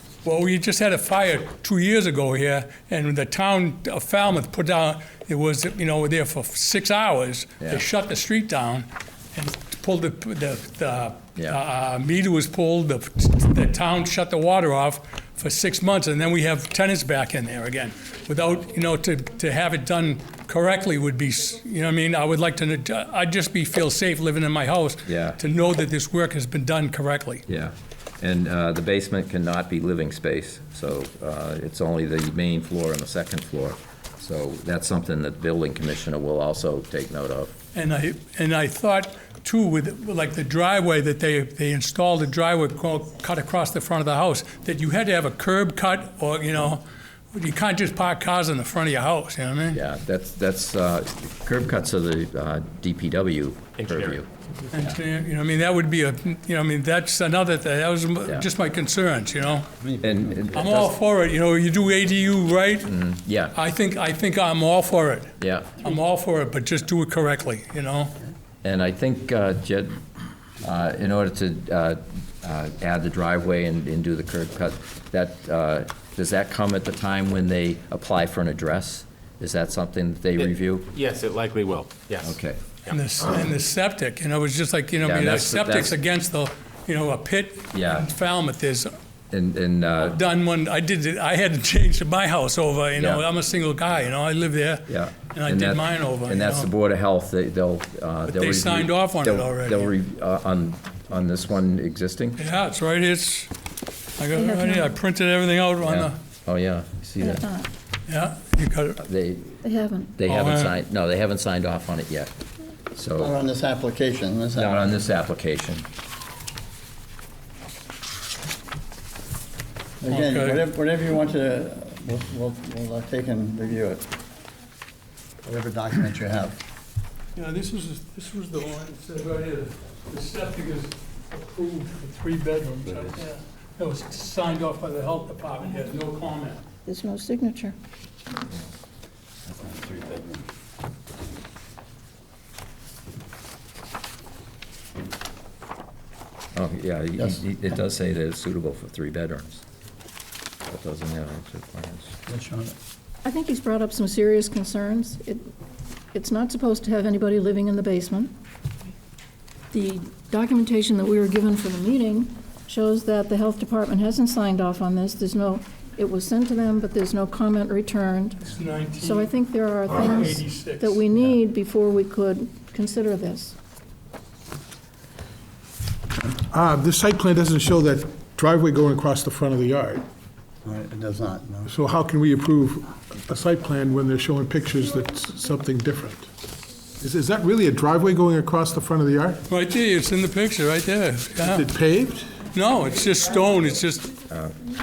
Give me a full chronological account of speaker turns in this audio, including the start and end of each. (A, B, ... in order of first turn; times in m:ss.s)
0:00.2-0:27.4 A
0:25.1-0:25.4 B
0:27.5-0:37.5 B
0:37.7-0:49.8 A
0:49.7-0:55.0 B
0:53.8-0:54.2 C
0:54.7-0:59.7 A
1:00.0-1:00.9 B
1:00.4-1:02.9 A
1:02.9-1:03.6 B
1:03.5-1:08.2 A
1:05.4-1:05.8 B
1:08.6-1:10.0 B
1:10.6-1:20.9 B
1:20.4-1:22.9 C
1:22.2-1:22.6 B
1:22.9-1:28.9 A
1:25.0-1:25.9 B
1:27.7-1:28.1 B
1:29.3-1:30.2 B
1:30.0-1:36.7 A
1:33.0-1:33.2 B
1:34.9-1:42.4 B
1:38.3-1:39.9 A
1:42.4-1:43.5 A
1:44.2-1:46.2 A
1:44.3-1:44.9 D
1:45.8-1:47.5 B
1:47.3-1:47.7 D
1:48.1-1:49.0 A
1:49.0-1:49.6 B
1:49.6-1:50.1 D
1:50.2-1:52.3 B
1:50.3-1:50.7 A
1:52.9-1:53.3 B
1:53.2-1:54.9 E
1:54.6-1:55.8 B
2:00.0-2:04.0 E
2:00.1-2:00.6 A
2:05.4-2:06.6 E
2:07.4-2:16.6 A
2:16.8-2:17.8 D
2:19.5-2:20.4 E
2:26.5-2:29.6 B
2:30.7-2:32.1 B
2:32.3-2:32.8 E
2:33.2-2:35.4 D
2:36.1-2:38.3 D
2:39.7-2:48.5 D
2:48.4-2:49.3 A
2:49.0-2:53.5 D
2:49.9-2:51.0 A
2:56.5-3:00.0 F
3:00.6-3:01.7 E
3:01.7-3:06.3 F
3:07.0-3:09.4 F
3:09.5-3:11.7 A
3:11.4-3:12.4 F
3:12.5-3:14.1 A